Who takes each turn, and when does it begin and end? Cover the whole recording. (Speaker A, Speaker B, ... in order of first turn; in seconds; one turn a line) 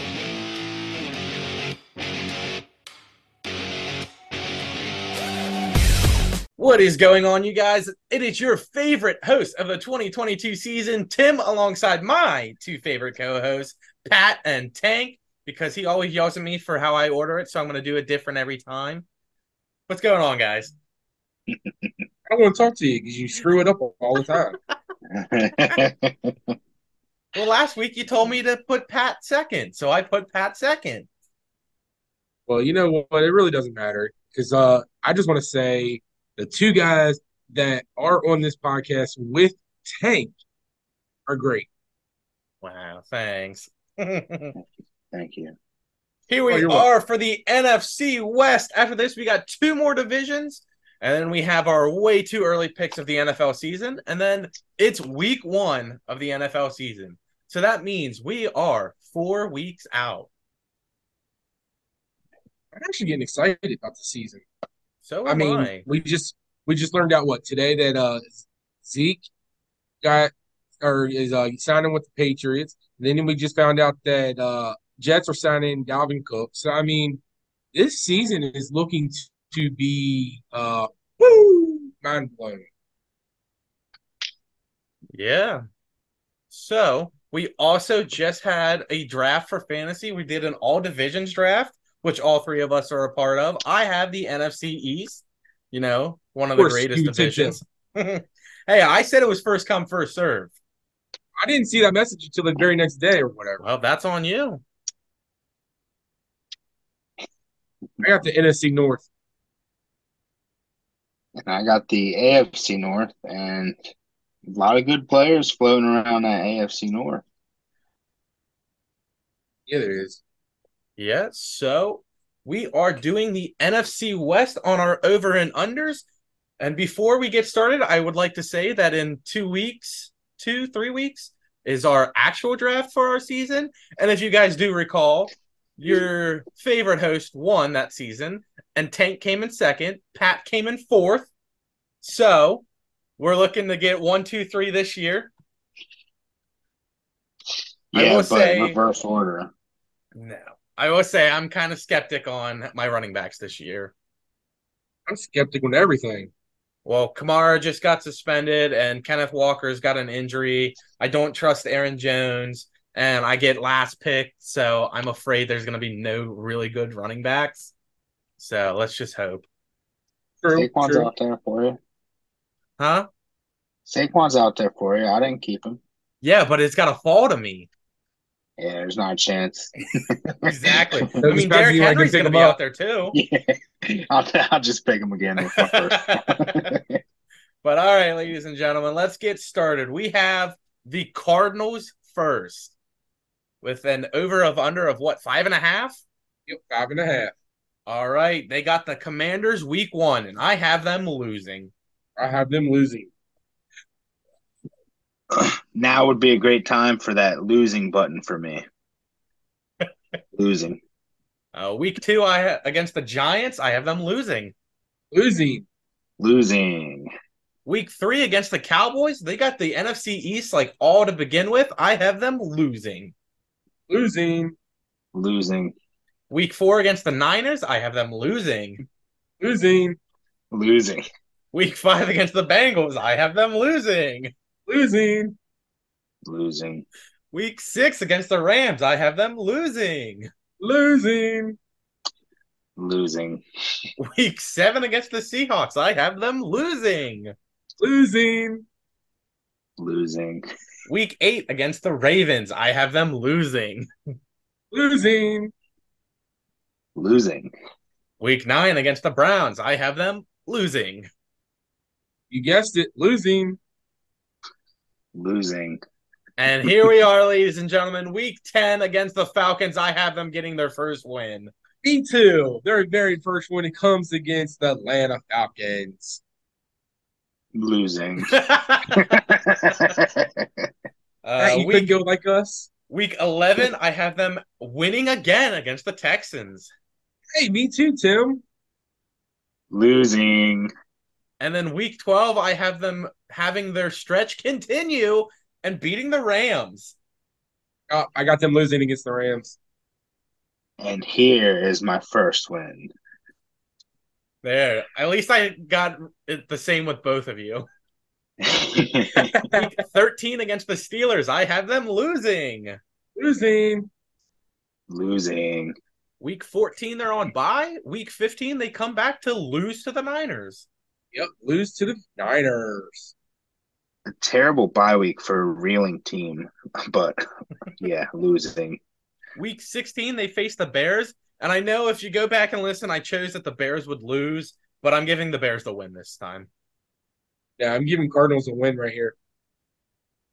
Speaker A: 6.6-19.0
Speaker A: 19.9-20.7
Speaker B: 22.3-24.6
Speaker C: 25.1-26.3
Speaker A: 27.3-31.1
Speaker B: 32.5-40.3
Speaker B: 41.3-41.7
Speaker A: 42.6-44.5
Speaker C: 45.1-45.5
Speaker A: 46.3-60.3
Speaker B: 46.5-46.9
Speaker B: 62.8-64.4
Speaker A: 65.0-65.8
Speaker B: 65.2-69.2
Speaker B: 70.0-77.2
Speaker B: 77.7-82.7
Speaker A: 85.1-85.6
Speaker A: 86.5-100.5
Speaker B: 96.5-97.6
Speaker B: 101.4-103.6
Speaker A: 103.6-104.6
Speaker B: 108.0-109.1
Speaker C: 111.4-113.8
Speaker C: 114.5-117.2
Speaker B: 119.7-120.2
Speaker A: 121.0-126.0
Speaker A: 126.6-141.3
Speaker A: 142.0-142.7
Speaker A: 143.2-145.3
Speaker C: 147.9-149.5
Speaker A: 147.9-148.8
Speaker A: 150.2-153.9
Speaker B: 155.1-156.3
Speaker A: 156.8-167.7
Speaker A: 168.4-169.4
Speaker B: 170.4-171.1
Speaker C: 170.5-171.8
Speaker A: 172.8-173.1
Speaker C: 173.8-175.8
Speaker A: 176.2-177.7
Speaker C: 178.6-181.0
Speaker A: 180.4-183.2
Speaker B: 181.2-182.6
Speaker C: 183.1-183.5
Speaker C: 184.1-187.0
Speaker A: 185.4-186.5
Speaker A: 187.6-192.7
Speaker A: 193.6-196.0
Speaker B: 196.5-197.3
Speaker A: 197.9-201.7
Speaker B: 202.2-203.1
Speaker C: 205.3-208.6
Speaker C: 210.3-210.8
Speaker A: 211.5-214.5
Speaker B: 215.1-215.6
Speaker C: 216.2-217.1
Speaker A: 217.7-223.1
Speaker B: 223.9-224.6
Speaker C: 225.1-225.7
Speaker A: 226.3-228.8
Speaker B: 229.4-230.0
Speaker C: 230.5-231.0
Speaker A: 231.5-234.3
Speaker B: 234.7-235.4
Speaker C: 236.2-236.8
Speaker A: 237.3-240.3
Speaker B: 240.6-241.6
Speaker C: 242.8-243.4
Speaker A: 244.0-247.3
Speaker B: 247.8-248.7
Speaker C: 249.8-250.4
Speaker A: 250.9-253.9
Speaker B: 254.7-255.5
Speaker C: 256.9-257.5
Speaker A: 258.2-261.1
Speaker B: 262.3-263.6
Speaker C: 265.1-265.8
Speaker A: 266.4-271.5
Speaker B: 271.8-276.2
Speaker C: 277.5-278.3
Speaker A: 278.2-279.1
Speaker C: 278.9-280.4
Speaker A: 281.2-282.0
Speaker B: 281.4-282.7
Speaker A: 282.9-286.7
Speaker B: 287.3-288.4
Speaker C: 289.7-290.7
Speaker A: 291.4-296.9
Speaker B: 297.9-299.6
Speaker C: 300.8-302.9
Speaker A: 304.4-307.7
Speaker C: 308.4-309.3
Speaker B: 309.2-309.7
Speaker A: 309.5-312.8
Speaker B: 313.2-313.9
Speaker C: 314.9-315.7
Speaker A: 316.2-320.7
Speaker B: 321.1-323.1
Speaker C: 324.1-327.2
Speaker C: 327.8-328.8
Speaker A: 329.4-336.5
Speaker B: 337.6-339.1